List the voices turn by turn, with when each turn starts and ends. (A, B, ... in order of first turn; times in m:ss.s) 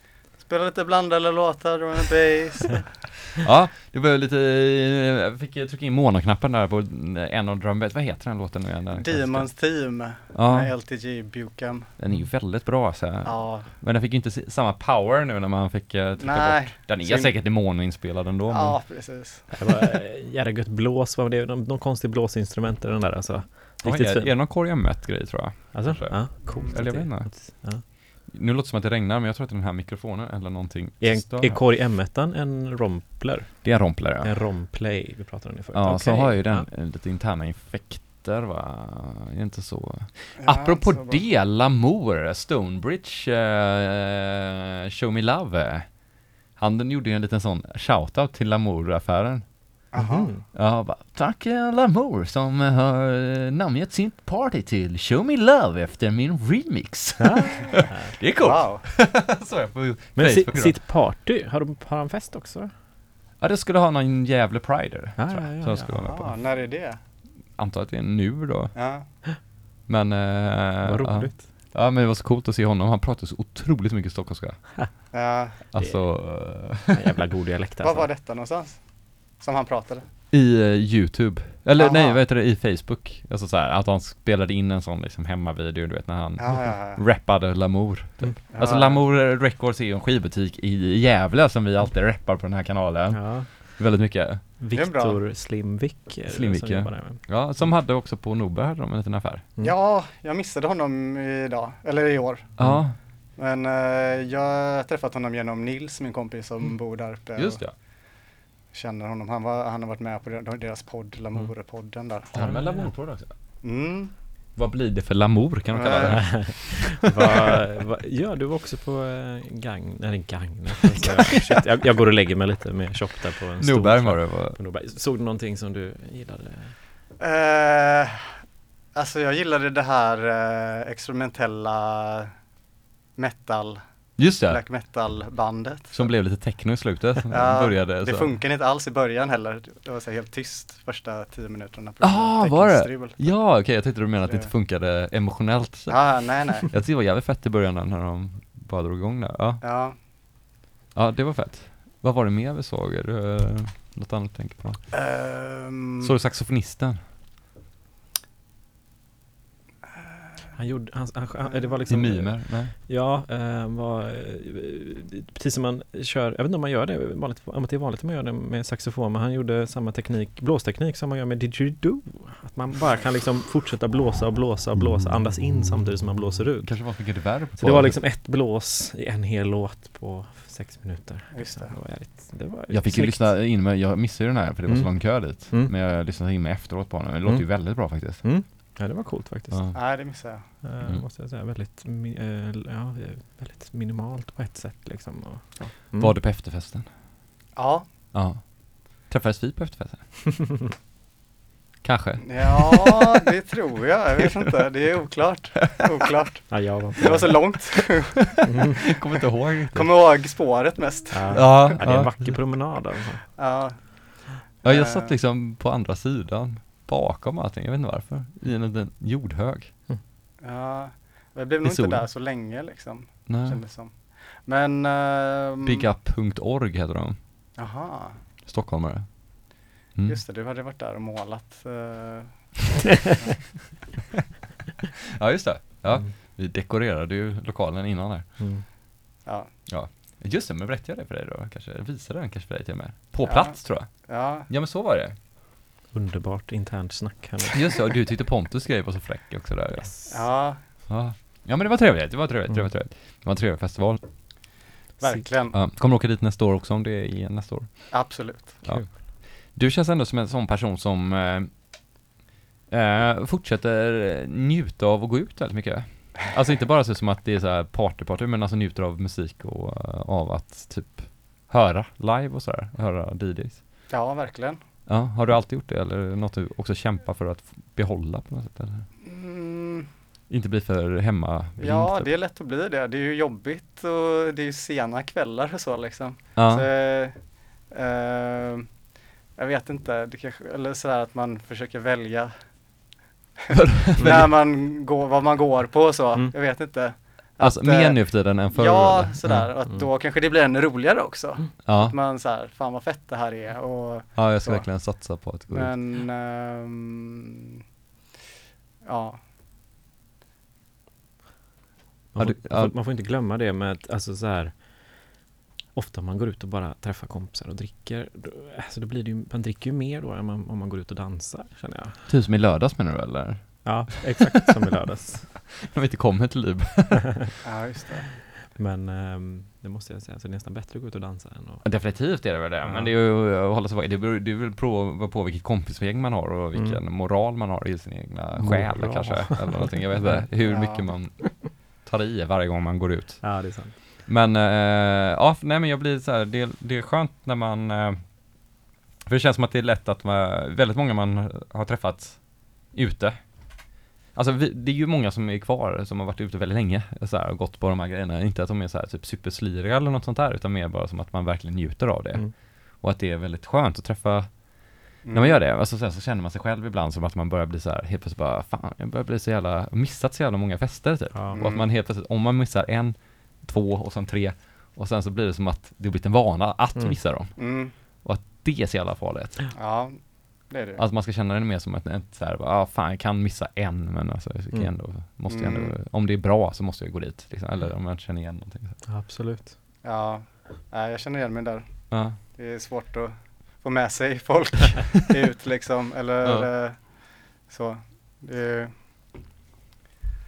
0:00.4-0:03.0 A
0:03.4-0:09.7 B
0:08.9-0:11.9 A
0:10.3-0:10.7 B
0:12.0-0:19.1 B
0:13.2-0:13.7 A
0:16.2-0:17.4 A
0:18.5-0:19.6 A
0:19.5-0:24.4 C
0:23.8-0:31.6 B
0:25.7-0:27.8 C
0:26.5-0:26.7 A
0:31.0-0:36.7 C
0:33.6-0:34.6 B
0:35.7-0:46.0 B
0:40.4-0:41.2 A
0:46.6-0:49.8 B
0:49.9-0:50.3 A
0:50.0-0:50.4 C
0:50.5-1:00.8 B
0:57.2-0:58.2 C
0:58.4-0:58.8 A
1:00.2-1:02.7 C
1:03.4-1:06.6 B
1:05.2-1:06.0 C
1:06.0-1:07.0 A
1:07.5-1:09.3 B
1:08.8-1:09.1 A
1:09.9-1:15.2 B
1:10.8-1:11.5 C
1:15.1-1:15.6 A
1:15.7-1:17.0 B
1:15.8-1:18.1 C
1:17.8-1:20.1 A
1:20.3-1:34.4 B
1:21.8-1:22.2 A
1:26.4-1:27.0 A
1:28.5-1:29.0 A
1:33.1-1:33.6 C
1:34.6-1:37.2 C
1:34.7-1:35.2 A
1:36.3-1:39.5 B
1:39.6-1:42.7 A
1:42.6-1:43.0 B
1:42.6-1:42.9 C
1:43.4-1:47.6 A
1:47.4-1:47.8 B
1:48.7-1:52.7 A
1:52.3-1:53.3 B
1:52.4-1:52.9 C
1:53.6-1:54.2 A
1:54.6-1:57.0 B
1:55.7-1:56.3 A
1:56.1-2:06.8 C
2:03.6-2:04.6 B
2:07.2-2:08.4 A
2:08.9-2:12.4 A
2:13.2-2:16.1 A
2:14.2-2:14.6 B
2:15.9-2:18.3 B
2:17.3-2:23.4 A
2:22.0-2:30.0 B
2:24.2-2:24.5 A
2:25.9-2:26.7 A
2:29.6-2:30.0 A
2:30.9-2:34.8 B
2:34.9-2:36.2 A
2:36.0-2:37.1 B
2:40.0-2:40.6 A
2:40.6-3:03.4 C
2:41.5-2:41.9 A
2:41.9-2:42.7 B
2:56.6-2:58.0 B
3:01.3-3:01.8 A
3:02.7-3:08.2 B
3:04.7-3:05.7 C
3:07.2-3:10.0 C
3:09.5-3:09.8 B
3:09.7-3:10.5 A
3:10.6-3:16.2 C
3:16.0-3:16.9 B
3:17.6-3:17.9 A
3:18.1-3:20.2 B
3:21.8-3:23.1 B
3:22.2-3:28.3 A
3:26.5-3:27.4 C
3:27.0-3:30.0 B
3:28.5-3:28.8 C
3:29.7-3:31.7 A
3:31.1-3:33.2 C
3:31.4-3:32.4 B
3:33.4-3:35.2 A
3:34.6-3:39.8 B
3:40.4-3:45.9 A
3:41.6-3:42.0 B
3:43.3-3:43.6 B
3:45.6-3:47.2 B
3:47.6-3:48.2 A
3:48.5-3:49.4 B
3:49.9-3:50.2 B
3:50.0-3:53.4 A
3:55.2-3:58.4 B
3:58.4-3:58.6 C
3:59.2-3:59.5 A
3:59.7-4:05.2 B
4:03.2-4:04.5 A
4:05.9-4:07.7 C
4:07.5-4:10.2 B
4:10.1-4:10.6 A
4:10.9-4:14.0 B
4:15.0-4:15.6 A
4:15.5-4:21.7 B
4:17.9-4:18.6 A
4:18.6-4:18.9 C
4:22.7-4:33.6 B
4:33.9-4:34.6 A
4:34.9-4:38.9 B
4:39.0-4:39.9 A
4:40.3-4:42.1 B
4:41.6-4:48.8 A
4:46.4-4:46.7 B
4:49.3-4:52.6 A
4:53.5-5:05.0 A
4:53.5-4:54.3 B
4:57.4-4:59.5 B
4:59.3-4:59.9 C
5:01.6-5:02.0 B
5:04.2-5:05.8 B
5:05.5-5:07.6 A
5:08.8-5:09.2 A
5:12.1-5:15.1 C
5:12.2-5:12.7 B
5:15.7-5:22.0 C
5:22.1-5:24.3 B
5:23.6-5:25.3 C
5:25.5-5:27.3 B
5:27.4-5:28.1 A
5:28.4-5:31.6 C
5:31.6-5:48.2 B
5:32.6-5:32.9 C
5:36.5-5:36.8 C
5:38.4-5:40.3 C
5:40.4-5:40.9 A
5:43.2-5:43.8 C
5:49.0-6:19.5 B
6:05.0-6:05.4 A
6:11.1-6:11.4 C
6:11.3-6:11.7 A
6:17.4-6:17.8 A
6:19.6-6:20.8 A
6:20.8-6:28.8 B
6:25.3-6:25.7 A
6:28.9-6:29.6 C
6:29.8-6:38.7 A
6:31.9-6:32.2 B
6:36.2-6:36.5 B